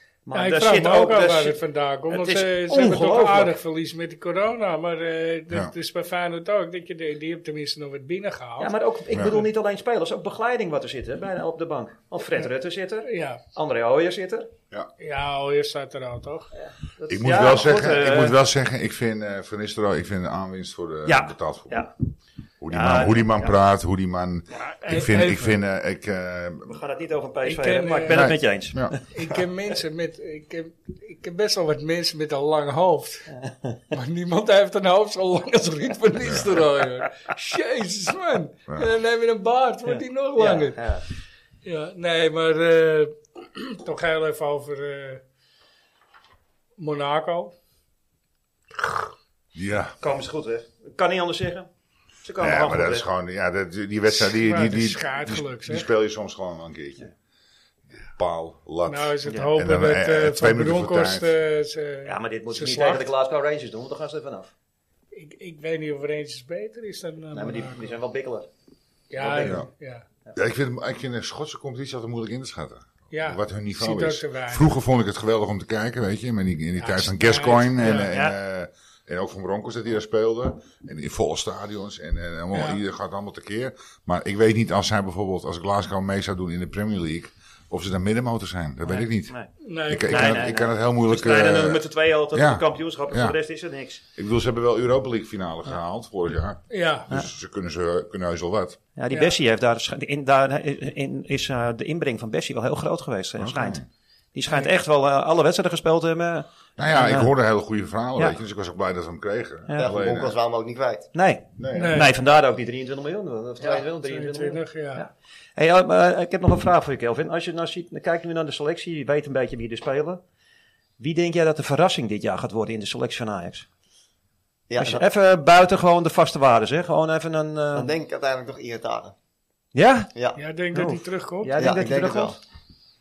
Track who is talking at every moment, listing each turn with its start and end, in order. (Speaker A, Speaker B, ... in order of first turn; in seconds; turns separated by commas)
Speaker A: 0.2-1.6, Speaker B: 0.3-8.7, Speaker A: 2.1-3.5, Speaker A: 8.6-14.5, Speaker C: 9.1-9.4, Speaker B: 13.0-13.4, Speaker B: 15.0-16.5, Speaker A: 16.5-18.4, Speaker C: 17.1-21.8, Speaker A: 21.1-21.9, Speaker C: 22.6-26.8, Speaker A: 22.7-23.6, Speaker B: 24.6-25.6, Speaker A: 26.7-29.0, Speaker B: 27.4-28.3, Speaker C: 28.1-28.9, Speaker B: 29.1-33.3, Speaker A: 33.4-33.8, Speaker B: 33.9-40.8, Speaker A: 39.9-41.0, Speaker B: 41.6-45.2, Speaker B: 46.8-47.5, Speaker B: 48.8-49.1, Speaker C: 49.5-50.0, Speaker A: 50.0-51.7, Speaker A: 52.2-53.1, Speaker C: 52.4-57.1, Speaker B: 54.1-55.9, Speaker C: 58.1-61.3, Speaker B: 58.9-63.1, Speaker A: 62.0-64.5, Speaker B: 65.1-68.0, Speaker A: 67.3-68.5, Speaker B: 69.1-70.0, Speaker A: 69.2-69.6, Speaker C: 70.3-89.3, Speaker B: 73.1-74.8, Speaker B: 76.8-78.1, Speaker A: 78.0-78.3, Speaker B: 82.5-82.8, Speaker A: 88.9-89.5, Speaker B: 89.6-90.5, Speaker C: 89.9-93.4, Speaker A: 90.1-94.0, Speaker C: 94.2-98.8, Speaker B: 96.7-97.1, Speaker A: 99.0-103.8, Speaker C: 103.4-103.8, Speaker A: 104.3-107.3, Speaker C: 106.8-110.3, Speaker A: 109.7-109.9, Speaker D: 109.8-111.1, Speaker A: 111.1-120.2, Speaker C: 111.6-112.0, Speaker B: 111.7-112.1, Speaker D: 113.6-113.8, Speaker B: 114.0-115.0, Speaker A: 121.0-123.7, Speaker D: 124.7-125.0, Speaker A: 124.8-127.9, Speaker D: 127.7-129.1, Speaker A: 129.7-130.1, Speaker D: 130.1-130.4, Speaker B: 130.3-131.6, Speaker A: 130.7-132.4, Speaker D: 131.6-132.4